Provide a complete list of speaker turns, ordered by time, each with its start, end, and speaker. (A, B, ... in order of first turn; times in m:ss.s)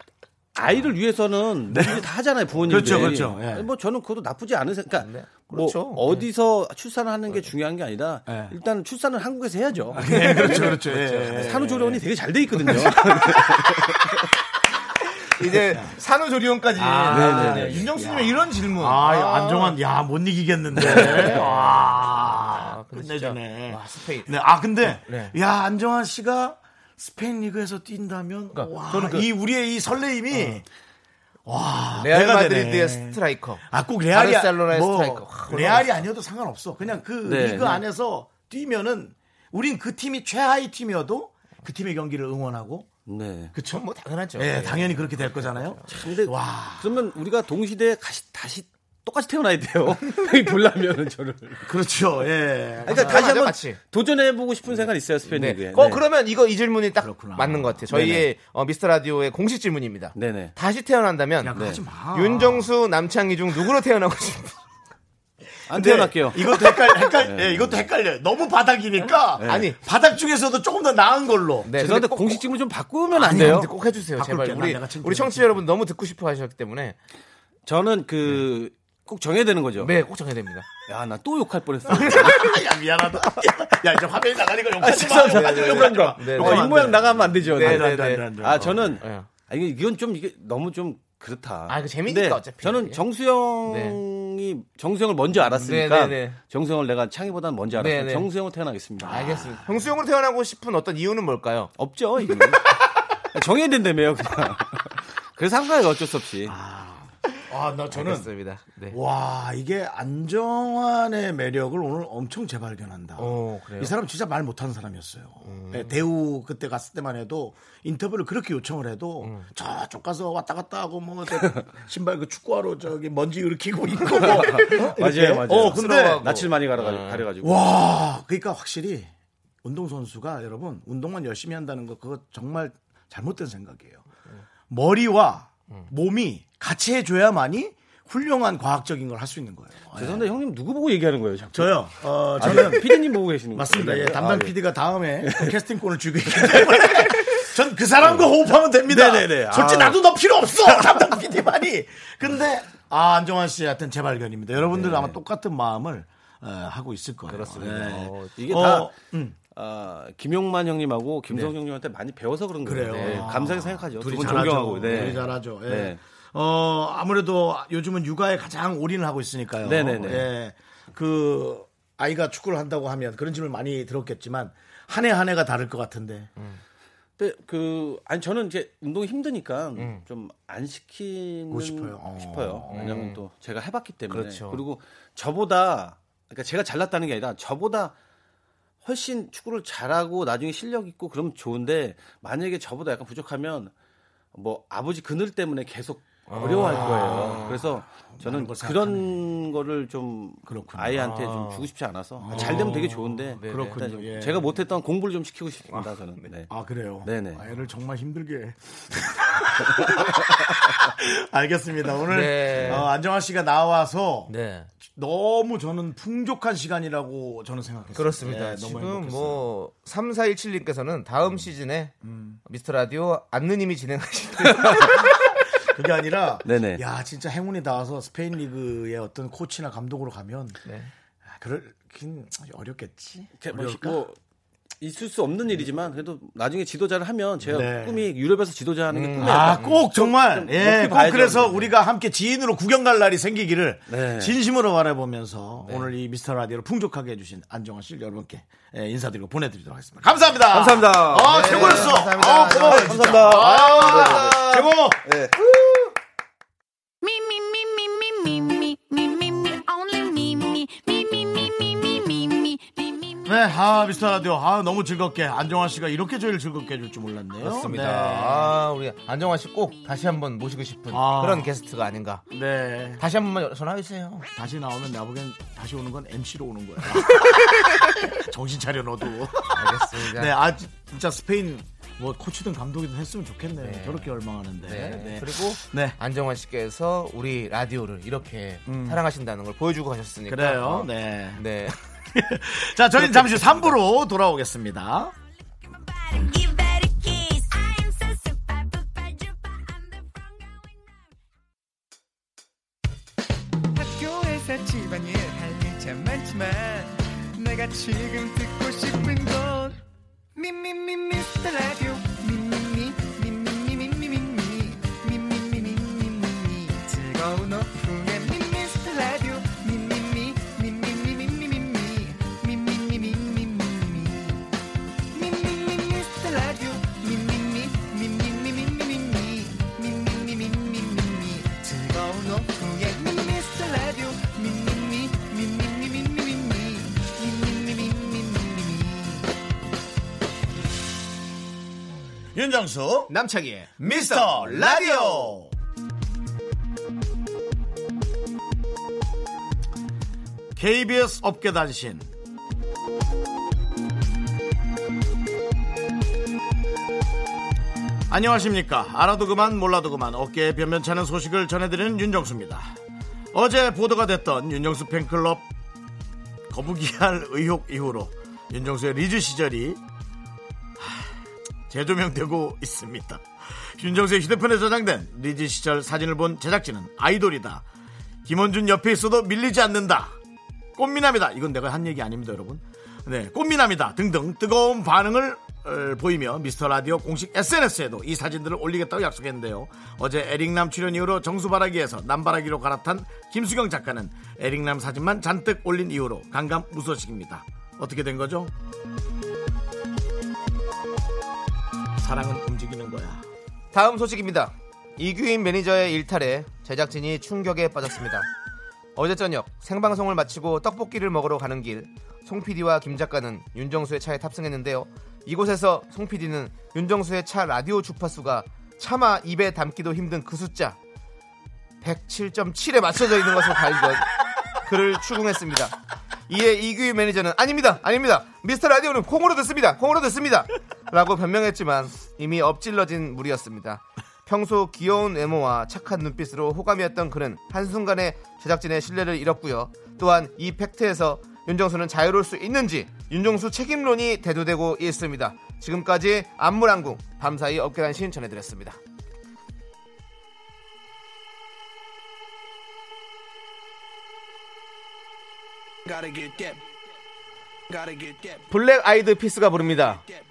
0:00.6-0:14.2 A
0:01.7-0:02.0 B
0:02.6-0:03.7 B
0:05.0-0:06.2 C
0:08.3-0:08.6 B
0:10.0-0:11.1 C
0:10.0-0:12.0 B
0:12.6-0:13.4 B
0:15.3-0:19.8 C
0:15.4-0:16.0 B
0:16.7-0:30.6 B
0:17.1-0:17.9 A
0:20.8-0:24.3 C
0:20.9-0:21.4 A
0:24.8-0:25.3 C
0:28.5-0:29.3 C
0:31.4-0:42.9 B
0:32.0-0:36.0 C
0:37.2-0:37.8 A
0:43.0-0:43.5 A
0:43.5-0:46.9 B
0:43.7-0:46.0 C
0:45.9-0:51.7 A
0:51.6-0:53.3 B
0:52.9-0:56.0 A
0:52.9-0:53.8 C
0:55.3-1:01.6 C
0:57.0-0:58.0 B
0:57.9-0:58.2 A
1:00.2-1:00.5 A
1:01.4-1:02.7 B
1:01.6-1:01.8 A
1:02.1-1:04.6 C
1:05.7-1:07.8 A
1:05.7-1:11.7 B
1:09.4-1:09.6 A
1:09.4-1:09.8 C
1:11.6-1:12.4 C
1:11.8-1:13.7 A
1:13.1-1:17.0 C
1:13.2-1:15.6 B
1:17.6-1:19.9 A
1:19.8-1:20.7 C
1:20.9-1:22.5 A
1:21.9-1:29.0 B
1:22.0-1:22.4 C
1:24.8-1:39.5 A
1:25.3-1:26.8 C
1:27.5-1:29.3 C
1:31.7-1:33.0 C
1:33.7-1:34.0 C
1:35.5-1:36.4 C
1:37.8-1:38.3 C
1:39.0-1:39.8 B
1:39.1-1:41.7 C
1:41.8-1:42.7 A
1:43.3-1:46.6 A
1:46.4-1:48.3 B
1:47.9-1:49.0 C
1:48.9-2:06.3 B
1:53.2-1:53.9 C
1:55.4-1:56.0 C
1:59.2-1:59.5 C
2:04.4-2:07.6 A
2:05.7-2:07.2 C
2:07.4-2:09.1 B
2:09.6-2:14.0 B
2:14.7-2:20.3 B
2:19.9-2:24.5 A
2:21.5-2:39.4 B
2:25.2-2:25.6 A
2:26.4-2:27.4 A
2:28.9-2:30.0 A
2:34.6-2:35.2 A
2:37.3-2:38.3 C
2:37.6-2:38.9 A
2:39.5-2:46.0 A
2:42.6-2:56.3 B
2:42.9-2:43.4 C
2:49.6-2:50.3 A
2:57.2-3:07.9 A
2:59.8-3:00.0 C
3:01.5-3:03.0 B
3:02.7-3:03.2 C
3:04.1-3:04.6 C
3:08.8-3:13.7 A
3:14.3-3:26.5 A
3:16.3-3:17.6 C
3:16.4-3:19.4 B
3:20.4-3:21.2 B
3:21.0-3:21.6 C
3:22.2-3:24.5 B
3:22.3-3:23.8 C
3:26.5-3:34.3 B
3:27.0-3:27.4 A
3:32.1-3:32.9 C
3:34.3-3:34.7 C
3:34.9-3:39.5 B
3:38.0-3:41.9 C
3:42.0-3:42.4 B
3:42.4-3:45.1 C
3:45.6-3:50.6 B
3:46.4-3:46.8 A
3:50.6-3:50.9 C
3:51.3-3:54.0 B
3:53.4-3:54.2 A
3:54.8-4:01.7 A
3:57.4-3:58.1 B
3:58.9-3:59.8 C
3:59.2-4:15.9 B
4:03.9-4:04.4 A
4:05.6-4:05.9 C
4:10.5-4:15.3 A
4:11.2-4:14.7 C
4:17.0-4:23.4 D
4:23.3-4:28.6 B
4:27.4-4:32.2 C
4:30.9-4:31.5 B
4:32.3-4:33.0 B
4:33.0-4:34.3 C
4:34.3-4:46.0 B
4:37.1-4:37.9 C
4:39.5-4:40.3 C
4:43.6-4:51.8 C
4:48.6-4:49.0 B
4:50.3-4:51.4 B
4:52.1-4:55.1 B
4:53.0-4:53.6 C
4:55.2-5:01.2 D
5:03.7-5:09.8 E
5:10.3-5:24.5 E
5:25.1-5:39.3 E
5:42.3-5:43.1 B
5:43.1-5:45.4 C
5:43.8-5:45.5 B
5:50.6-5:52.1 B
5:58.1-6:02.8 B
6:03.3-6:05.4 B
6:06.5-6:09.8 B
6:10.8-6:11.2 B
6:11.7-6:17.6 B
6:18.2-6:20.2 B
6:20.8-6:38.5 B
6:42.0-6:43.2 B
6:43.7-6:48.3 C
6:49.0-7:00.8 C
7:01.8-7:04.1 C
7:04.6-7:05.7 C
7:06.3-7:28.8 C
7:35.9-7:36.6 E
7:37.7-7:38.4 E
7:38.5-7:40.0 C